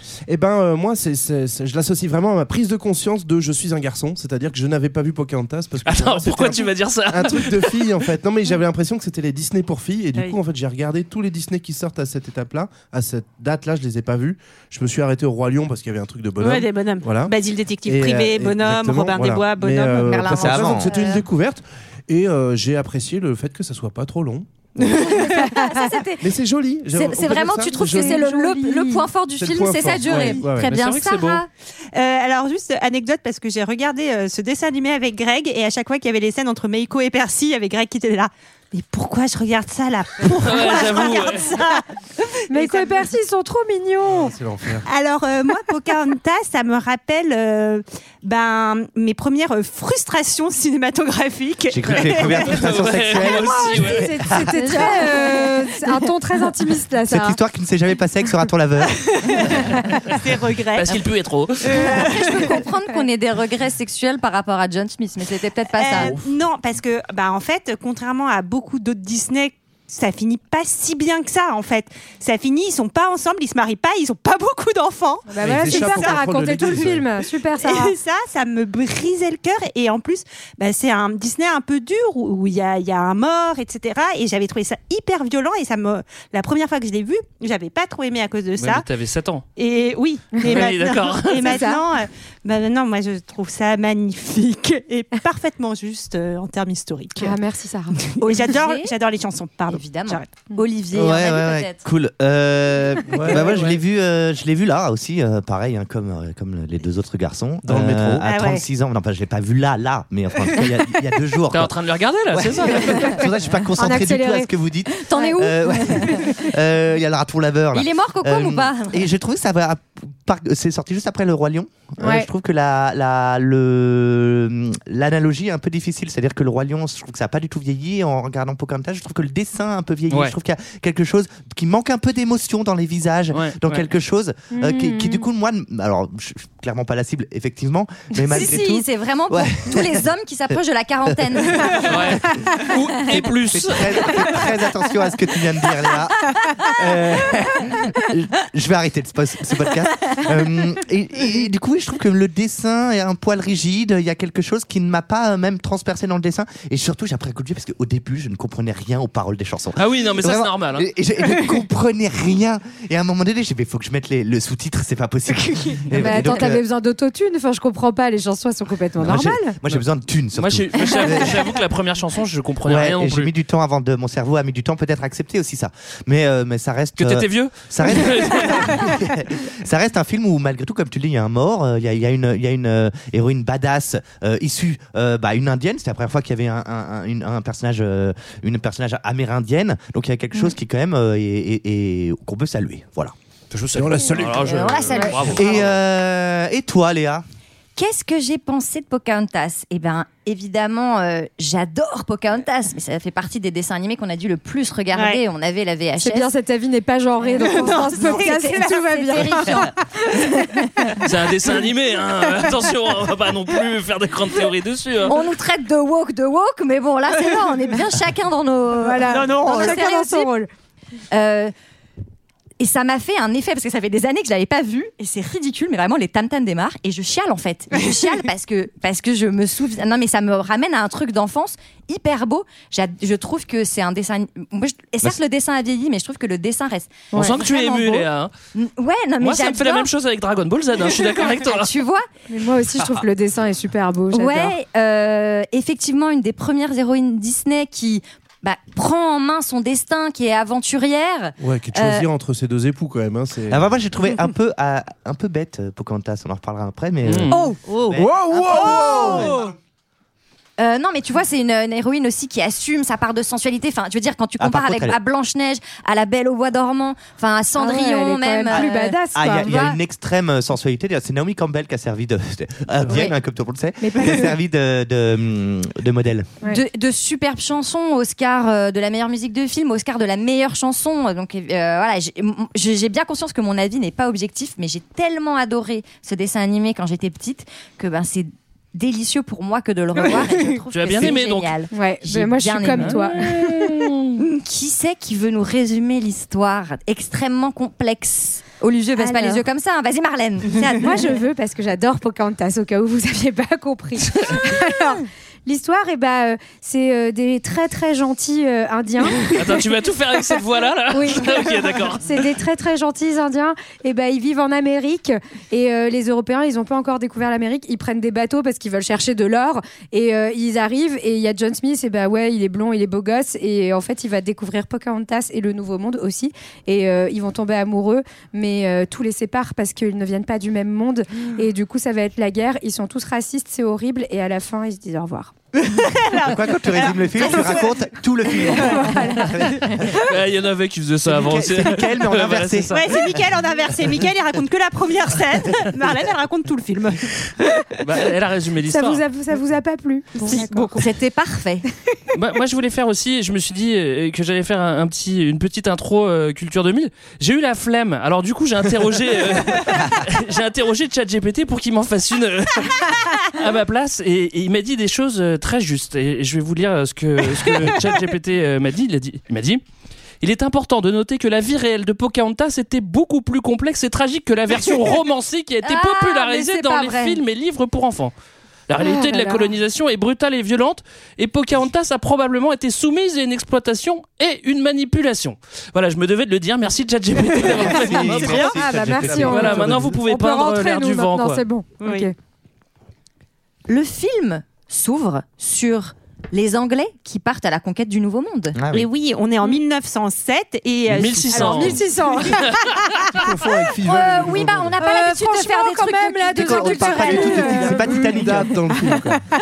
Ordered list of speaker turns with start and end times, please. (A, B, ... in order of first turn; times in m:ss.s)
0:00.3-0:25.0 A
0:05.8-0:08.1 B
0:16.4-0:20.6 C
0:20.0-0:21.3 D
0:20.4-0:21.0 E
0:24.9-0:25.6 C
0:25.0-0:26.2 D
0:26.2-0:28.2 A
0:26.9-0:31.5 D
0:27.7-0:29.0 F
0:29.4-0:30.8 A
0:30.6-0:31.4 B
0:31.9-0:43.1 C
0:40.4-0:41.6 B
0:42.5-0:44.4 F
0:44.1-0:44.9 A
0:44.8-0:52.6 C
0:51.7-0:54.5 E
0:51.9-0:54.1 B
0:53.6-0:57.4 F
0:54.3-0:56.0 D
0:57.1-0:59.7 E
0:59.0-1:01.0 C
1:00.8-1:01.9 B
1:01.6-1:02.6 C
1:01.7-1:06.1 D
1:05.8-1:16.9 C
1:06.0-1:06.2 A
1:15.3-1:18.0 F
1:15.4-1:17.1 A
1:17.6-1:28.9 C
1:28.6-1:29.4 B
1:29.6-1:37.4 C
1:30.3-1:30.7 F
1:30.4-1:31.6 B
1:31.3-1:31.8 F
1:37.2-1:38.0 F
1:38.0-1:40.5 C
1:38.3-1:38.9 D
1:39.7-1:41.8 D
1:40.9-1:51.7 E
1:43.1-1:43.8 A
1:47.6-1:48.2 A
1:48.2-1:48.6 C
1:51.5-1:53.1 B
1:52.3-2:22.2 E
1:53.8-1:54.5 F
1:55.0-1:56.2 D
1:57.7-1:59.1 D
2:02.0-2:02.3 F
2:13.3-2:13.8 B
2:14.5-2:15.3 F
2:18.3-2:21.9 D
2:21.8-2:24.4 B
2:23.1-2:46.6 E
2:39.8-2:40.9 B
2:45.9-2:49.6 F
2:49.0-2:51.5 E
2:50.3-2:53.3 B
2:52.6-3:13.1 E
2:57.0-2:58.9 B
3:13.5-3:15.8 B
3:13.7-3:15.3 A
3:14.4-3:15.6 D
3:15.3-3:17.2 E
3:17.8-3:26.3 D
3:24.9-3:25.2 C
3:26.0-3:31.0 F
3:27.3-3:29.5 C
3:28.1-3:29.7 D
3:31.0-3:35.2 B
3:35.1-3:40.3 D
3:38.8-3:40.5 F
3:39.0-3:39.8 C
3:41.1-3:41.5 D
3:42.6-3:59.9 D
3:57.1-3:58.3 B
3:59.2-4:01.7 B
4:01.0-4:02.1 D
4:02.3-4:04.6 F
4:04.1-4:12.1 D
4:11.4-4:13.6 A
4:13.5-4:19.5 E
4:17.0-4:17.5 B
4:17.9-4:19.5 A
4:20.6-4:29.8 D
4:24.4-4:25.0 E
4:27.6-4:29.5 F
4:28.5-4:36.3 E
4:33.8-4:34.4 F
4:36.5-5:01.1 D
4:50.7-4:51.5 B
4:51.7-4:53.7 F
4:52.8-4:54.0 B
4:59.0-4:59.4 F
5:00.6-5:09.4 F
5:09.2-5:12.2 B
5:10.9-5:35.4 F
5:35.6-5:37.8 C
5:36.1-5:39.9 E
5:38.4-5:38.9 C
5:38.5-5:39.3 F
5:39.8-5:43.1 B
5:41.1-5:43.0 E
5:42.7-5:47.6 C
5:47.8-5:49.0 B
5:48.7-5:50.7 F
5:50.2-5:50.9 C
5:50.3-5:51.6 D
5:52.1-6:09.6 B
6:10.2-6:18.1 B
6:15.6-6:17.2 D
6:18.7-6:28.6 B
6:18.8-6:19.4 F
6:27.4-6:29.3 E
6:28.1-6:30.0 A
6:28.2-6:28.5 C
6:28.4-6:32.1 F
6:29.1-6:31.4 B
6:31.8-6:32.1 C
6:33.7-6:38.6 D
6:38.6-6:38.9 E
6:38.7-6:41.8 C
6:40.9-6:42.7 B
6:41.3-6:42.7 F
6:43.1-6:44.8 A
6:43.8-6:47.5 D
6:44.8-6:48.2 F
6:46.4-6:48.6 E
6:47.3-6:49.2 A